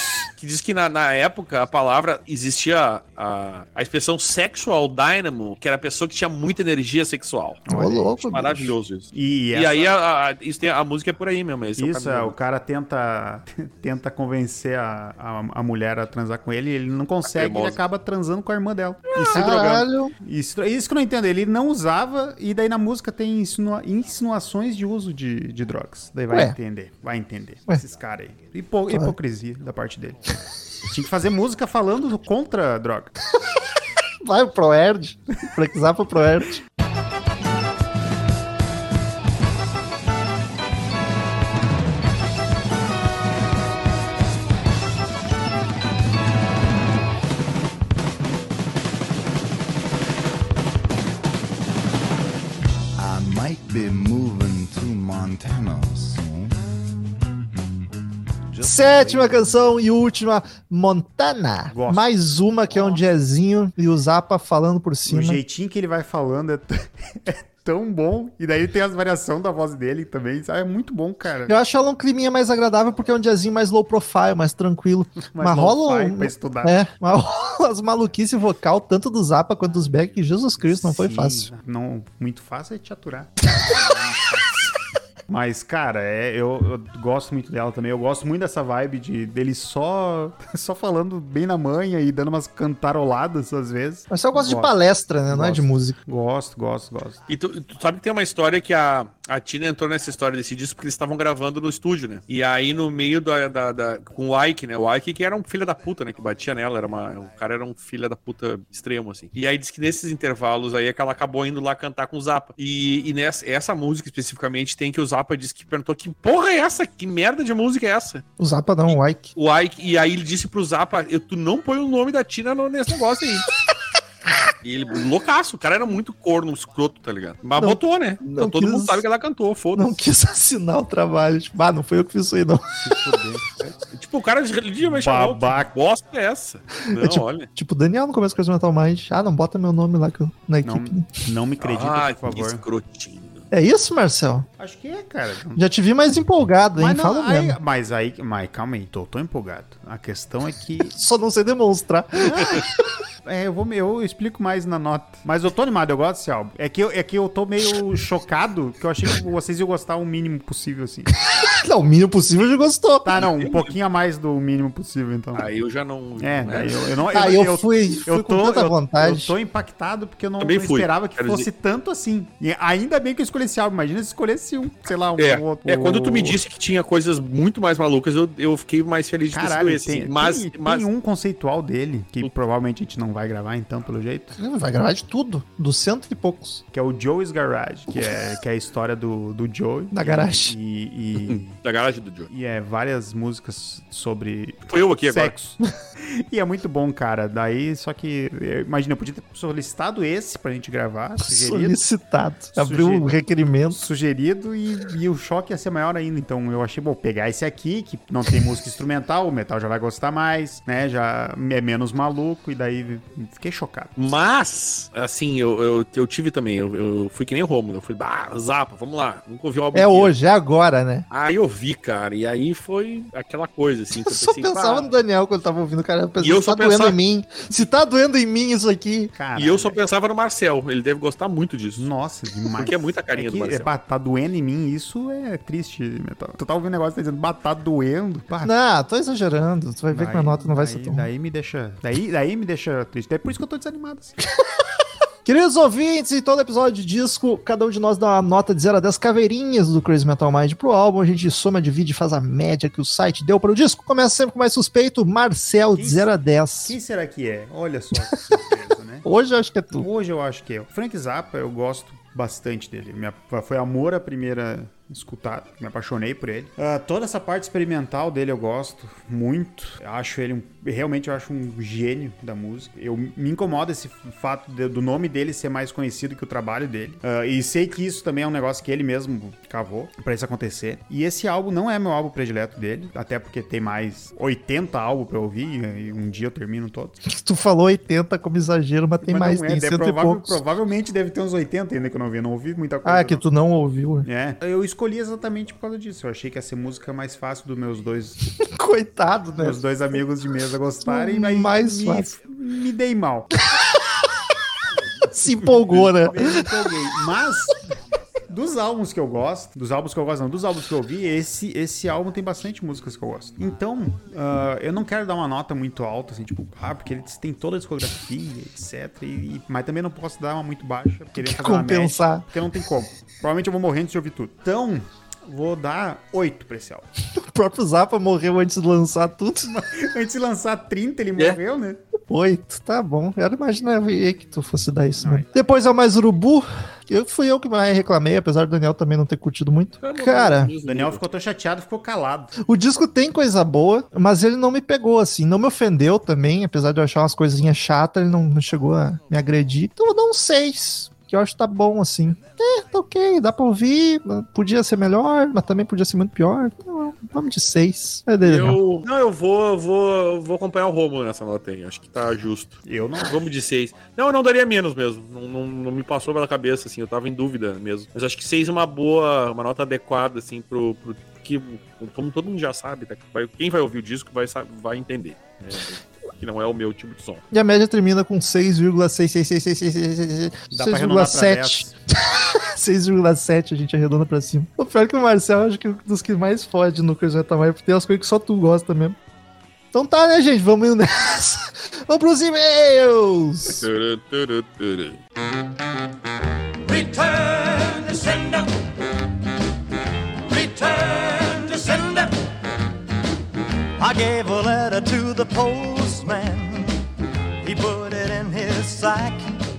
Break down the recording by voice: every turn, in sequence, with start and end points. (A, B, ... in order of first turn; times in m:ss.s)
0:00.4-0:07.7 A
0:07.7-0:08.4 B
0:07.7-0:08.7 C
0:08.2-0:12.4 A
0:09.1-0:09.9 B
0:11.8-0:30.3 B
0:17.2-0:17.8 A
0:19.2-0:20.1 C
0:26.3-0:26.6 C
0:30.8-0:33.2 B
0:34.2-0:36.6 C
0:53.0-0:56.6 D
0:58.5-0:59.7 D
0:58.6-1:05.4 C
1:01.7-1:02.1 B
1:05.1-1:11.6 B
1:11.5-1:21.5 C
1:15.3-1:16.8 B
1:20.6-1:24.7 B
1:25.3-1:34.8 B
1:34.1-1:36.0 C
1:35.3-1:37.2 B
1:37.3-1:58.2 A
1:58.4-1:59.3 C
1:58.9-2:03.5 A
2:04.6-2:10.0 A
2:07.6-2:09.0 C
2:09.8-2:12.8 C
2:12.8-2:13.7 B
2:13.9-2:17.5 A
2:14.8-2:15.7 B
2:16.8-2:21.2 C
2:20.6-2:22.6 B
2:21.6-2:23.4 A
2:23.5-2:24.5 C
2:24.6-2:25.7 B
2:25.6-2:27.6 C
2:26.8-2:31.0 B
2:30.9-2:32.7 C
2:32.2-2:32.6 B
2:33.2-2:41.1 B
2:41.2-2:43.1 C
2:43.0-2:45.5 B
2:43.2-2:43.7 A
2:45.4-2:46.8 A
2:46.2-2:56.4 B
2:47.1-2:49.3 C
2:50.4-2:51.5 A
2:55.2-3:00.9 A
2:59.3-3:04.4 B
3:04.4-3:06.6 C
3:06.7-3:11.6 B
3:09.9-3:10.6 C
3:11.3-3:12.3 A
3:12.3-3:21.8 B
3:14.7-3:15.4 A
3:21.2-3:23.8 C
3:22.6-3:23.2 B
3:23.7-3:34.1 B
3:34.0-3:40.2 A
3:39.7-3:41.0 C
3:41.1-3:44.9 A
3:44.1-3:49.1 C
3:46.2-3:47.0 A
3:49.1-3:49.8 B
3:49.4-3:51.9 A
3:51.8-3:58.5 B
3:52.6-3:53.7 A
3:58.4-4:01.1 C
3:59.9-4:04.2 B
4:05.2-4:16.8 C
4:15.8-4:19.1 B
4:19.0-4:19.9 C
4:19.7-4:47.0 B
4:47.0-4:50.4 C
4:49.0-4:53.2 B
4:52.8-4:54.1 C
4:54.0-4:58.2 B
4:58.4-4:59.6 C
4:59.4-5:03.3 B
5:00.8-5:02.1 C
5:05.1-5:06.5 C
5:05.3-5:07.7 B
5:08.3-5:26.9 B
5:21.2-5:22.3 C
5:27.2-5:29.5 C
5:29.4-5:31.8 B
5:32.1-5:40.5 C
5:35.0-5:35.3 B
5:39.8-5:41.0 A
5:40.6-5:42.3 B
5:42.4-5:58.6 C
5:58.2-6:17.2 A
6:02.7-6:03.3 B
6:17.3-6:29.0 C
6:20.5-6:21.7 B
6:29.7-6:33.7 C
6:33.5-6:35.0 A
6:36.7-6:38.5 E
6:40.3-6:42.2 E
6:43.8-6:46.7 E
6:47.4-6:49.4 E